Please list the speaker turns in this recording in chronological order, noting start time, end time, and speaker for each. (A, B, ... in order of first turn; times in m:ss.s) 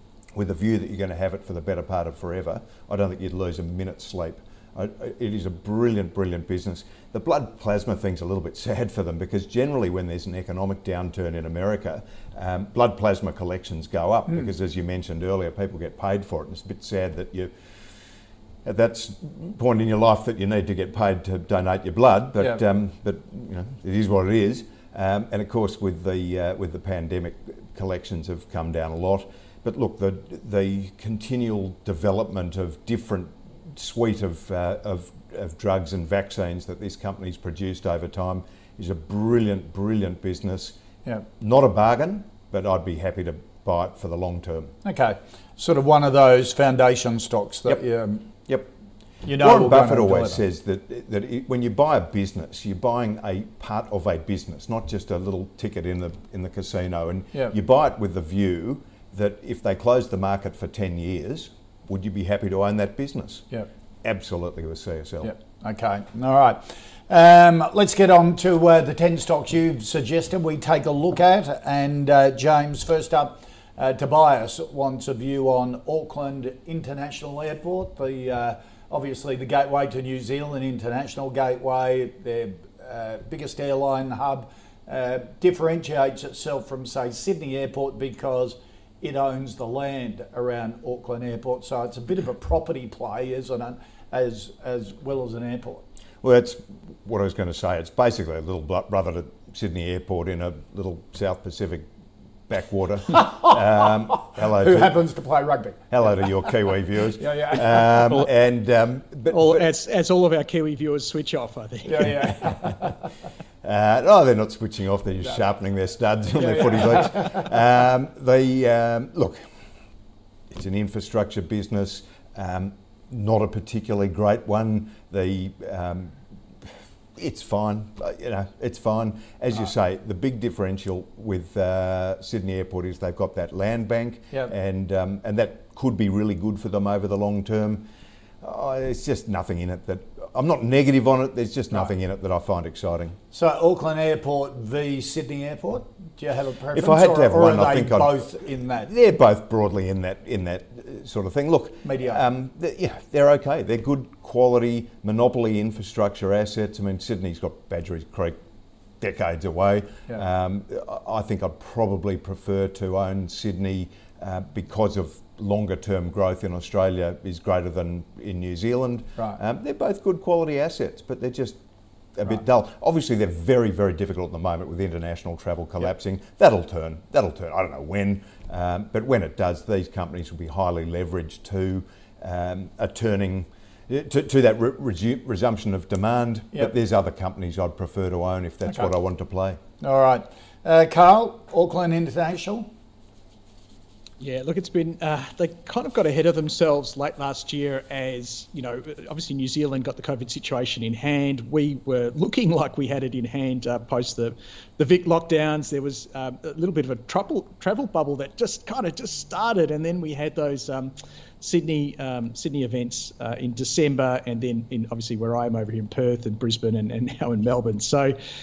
0:00.3-0:17.5 A
0:18.6-0:40.8 A
0:41.4-0:44.7 A
0:44.8-0:48.3 B
0:49.2-0:50.4 B
0:49.2-1:03.5 A
1:04.0-1:05.3 A
1:05.2-1:35.8 B
1:36.2-1:41.9 A
1:42.5-1:45.0 A
1:43.2-1:46.2 B
1:45.9-1:49.7 A
1:47.2-1:48.2 B
1:49.3-1:52.5 C
1:51.9-1:52.9 B
1:53.6-1:59.5 A
1:56.4-1:57.5 B
2:00.5-2:17.9 A
2:18.4-2:23.2 A
2:23.3-2:28.9 B
2:26.7-2:38.4 A
2:31.8-2:32.2 B
2:39.0-2:51.6 A
2:52.1-3:09.6 A
3:08.6-3:08.9 B
3:09.8-3:12.7 B
3:14.2-3:38.1 C